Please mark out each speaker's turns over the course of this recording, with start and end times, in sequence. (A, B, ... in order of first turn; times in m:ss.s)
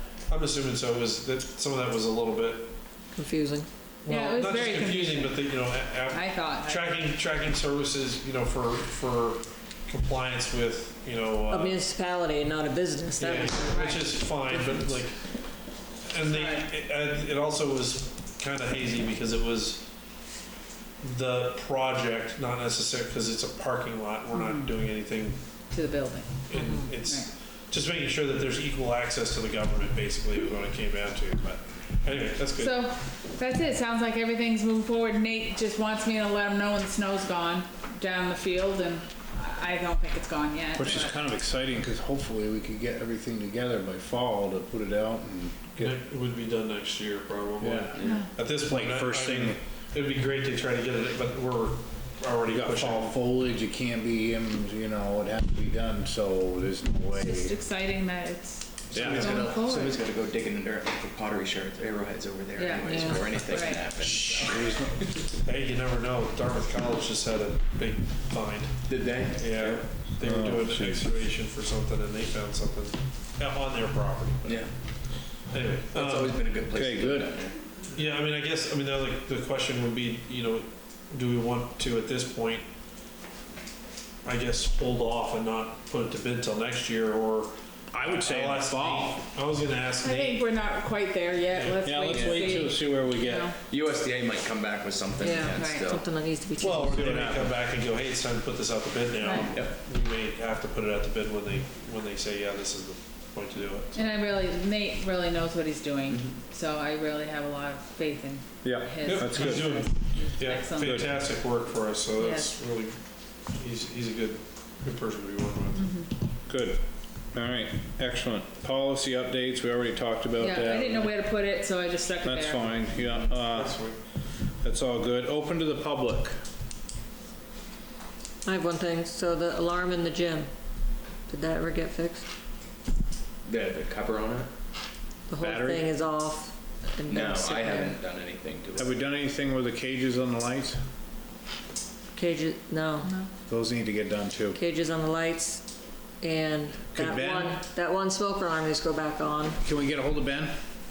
0:00.3-0:02.7 A
0:03.1-0:03.7 B
0:04.0-0:11.8 A
0:04.1-0:05.6 C
0:06.1-0:07.0 C
0:11.5-0:13.8 B
0:13.2-0:15.3 A
0:13.7-0:14.1 C
0:16.0-0:19.8 A
0:16.2-0:16.7 C
0:21.0-0:25.4 A
0:24.3-0:24.7 C
0:25.7-0:26.4 C
0:26.5-0:32.8 A
0:26.5-0:26.9 B
0:27.0-0:27.3 C
0:32.6-0:41.2 C
0:40.8-0:46.0 D
0:45.8-0:53.2 A
0:47.6-0:48.0 D
0:47.9-0:48.3 E
0:48.0-0:48.3 C
0:48.5-0:49.6 D
0:52.5-0:57.6 D
0:57.0-1:00.0 C
0:58.9-1:04.8 E
0:58.9-0:59.4 D
1:02.6-1:03.9 C
1:02.8-1:03.3 B
1:04.0-1:05.2 D
1:05.4-1:14.6 A
1:08.8-1:09.8 E
1:10.2-1:11.1 D
1:14.4-1:14.7 E
1:15.5-1:16.4 A
1:15.9-1:17.6 E
1:16.7-1:17.3 D
1:17.9-1:22.7 A
1:24.2-1:30.4 A
1:27.9-1:29.2 D
1:30.0-1:33.6 C
1:31.5-1:31.8 A
1:31.8-1:33.5 D
1:32.1-1:32.6 E
1:33.6-1:36.0 E
1:35.2-1:37.1 B
1:35.5-1:35.9 C
1:36.6-1:44.2 A
1:36.8-1:37.6 D
1:39.2-1:39.5 C
1:44.0-1:51.1 C
1:48.6-1:49.9 D
1:49.0-1:55.9 A
1:50.8-1:51.1 D
1:52.2-1:52.5 C
1:55.8-1:56.1 C
1:56.5-1:56.8 D
1:57.3-2:01.2 D
2:00.4-2:02.8 C
2:02.2-2:03.9 D
2:02.8-2:04.0 A
2:04.6-2:06.4 D
2:08.4-2:12.3 B
2:13.4-2:14.5 E
2:15.3-2:18.0 B
2:15.4-2:15.9 D
2:17.1-2:19.0 E
2:18.8-2:20.8 D
2:22.2-2:23.1 B
2:23.0-2:23.3 C
2:23.5-2:24.6 D
2:24.5-2:25.7 B
2:26.2-2:29.6 B
2:26.9-2:27.6 D
2:29.6-2:30.6 D